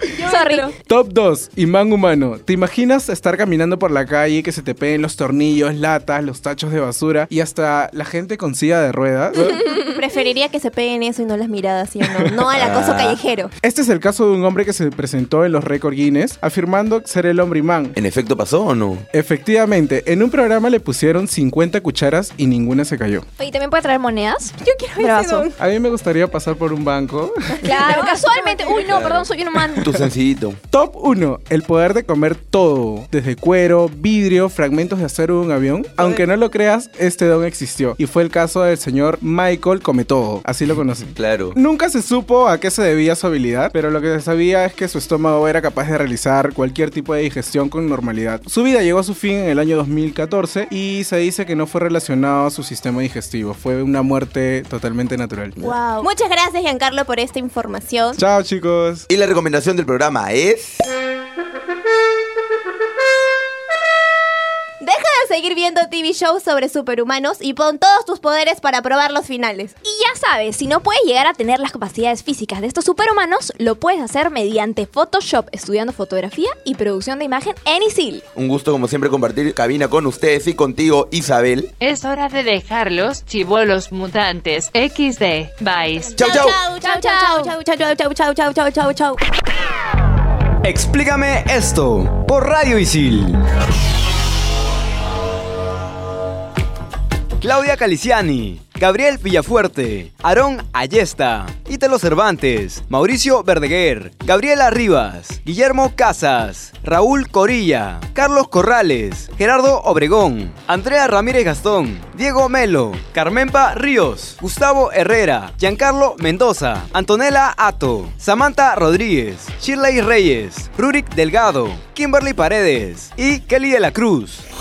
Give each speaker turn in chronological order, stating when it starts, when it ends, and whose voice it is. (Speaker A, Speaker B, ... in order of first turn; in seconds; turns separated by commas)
Speaker A: 0.1-0.8, Speaker B: 0.2-0.7, Speaker C: 0.8-9.6, Speaker A: 9.4-13.5, Speaker D: 12.5-13.2, Speaker C: 13.6-17.9, Speaker D: 17.9-19.0, Speaker C: 19.1-23.2, Speaker B: 23.4-25.5, Speaker A: 24.6-25.6, Speaker C: 25.6-27.6, Speaker A: 27.6-28.9, Speaker B: 27.6-29.9, Speaker D: 28.9-30.6, Speaker C: 30.7-55.6, Speaker D: 41.1-41.5, Speaker A: 55.6-58.2, Speaker C: 58.2-59.1, Speaker D: 59.1-60.8, Speaker A: 64.8-69.7, Speaker B: 69.8-78.2, Speaker D: 78.3-81.7, Speaker E: 81.8-86.2, Speaker A: 86.1-89.2, Speaker D: 86.2-86.6, Speaker B: 86.8-87.5, Speaker F: 90.6-93.4, Speaker F: 97.4-124.4